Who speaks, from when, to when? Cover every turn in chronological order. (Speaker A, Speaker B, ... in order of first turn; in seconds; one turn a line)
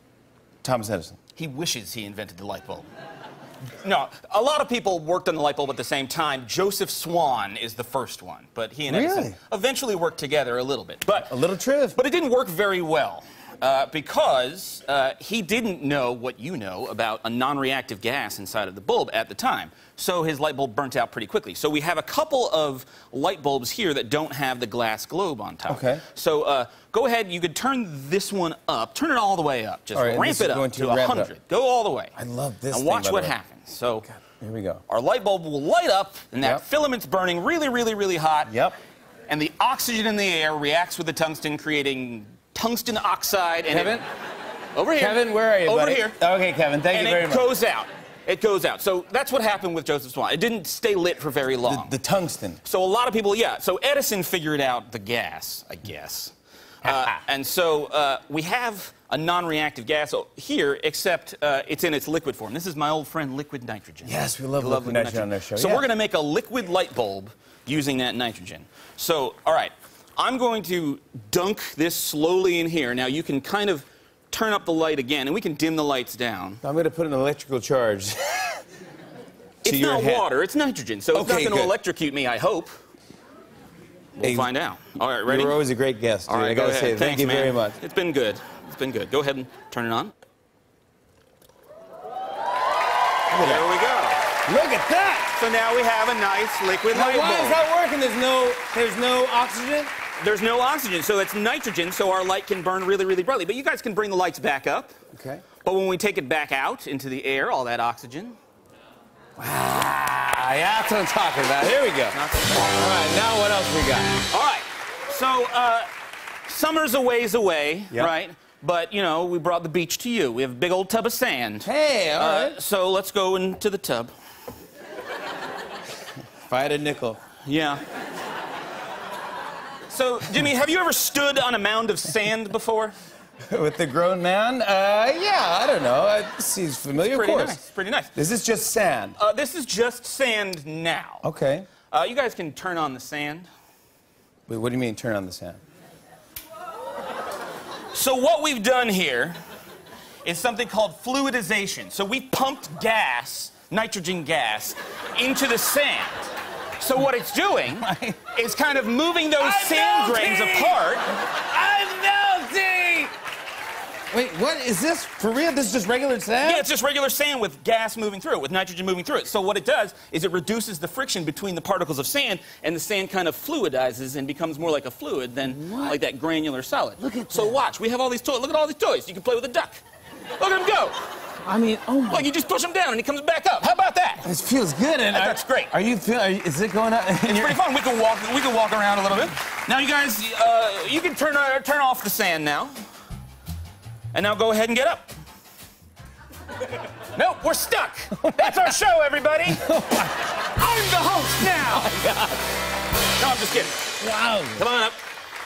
Speaker A: 0.6-1.2
Speaker B: 1.4-2.9
Speaker B: 3.8-11.4
Speaker A: 8.9-9.4
Speaker A: 11.3-12.0
Speaker B: 11.9-32.1
Speaker A: 25.7-26.0
Speaker A: 29.9-31.3
Speaker A: 32.2-33.4
Speaker B: 32.7-34.1
Speaker A: 34.1-34.8
Speaker B: 34.9-38.5
Speaker A: 38.5-38.8
Speaker B: 39.3-44.0
Speaker A: 43.7-44.1
Speaker B: 44.7-46.2
Speaker A: 45.0-47.5
Speaker B: 46.9-52.0
Speaker A: 51.6-52.6
Speaker B: 52.6-76.6
Speaker A: 64.0-65.8
Speaker A: 76.6-78.6
Speaker B: 79.6-82.7
Speaker A: 79.7-80.3
Speaker A: 81.1-81.7
Speaker B: 84.2-85.6
Speaker A: 84.2-84.5
Speaker A: 85.3-87.8
Speaker B: 86.3-90.1
Speaker A: 93.3-93.7
Speaker B: 93.4-94.3
Speaker A: 94.5-95.4
Speaker B: 95.3-97.6
Speaker A: 96.9-99.9
Speaker B: 100.2-105.0
Speaker A: 105.1-105.5
Speaker B: 105.6-108.4
Speaker A: 109.4-114.2
Speaker B: 112.1-112.7
Speaker B: 114.3-115.9
Speaker B: 116.5-124.1
Speaker A: 121.6-122.6
Speaker A: 126.5-127.2
Speaker B: 127.5-127.8
Speaker B: 129.9-133.0
Speaker A: 133.5-137.6
Speaker B: 137.0-138.1
Speaker A: 138.2-139.2
Speaker B: 139.2-141.2
Speaker A: 141.2-141.7
Speaker B: 141.9-143.5
Speaker A: 144.5-145.6
Speaker B: 147.9-149.4
Speaker B: 150.2-161.1
Speaker A: 157.8-158.2
Speaker A: 159.4-163.1
Speaker A: 164.1-166.7
Speaker B: 166.4-179.8
Speaker A: 175.5-176.0
Speaker A: 177.0-177.6
Speaker B: 180.4-181.0
Speaker A: 181.4-182.3
Speaker B: 182.1-184.3
Speaker A: 184.2-187.6
Speaker B: 185.1-185.7
Speaker B: 187.2-192.7
Speaker B: 194.1-195.2
Speaker B: 197.0-199.7
Speaker A: 198.2-198.7
Speaker A: 199.5-200.5
Speaker B: 200.4-202.5
Speaker A: 201.3-202.3
Speaker B: 203.2-203.8
Speaker A: 204.0-204.7
Speaker B: 204.6-205.0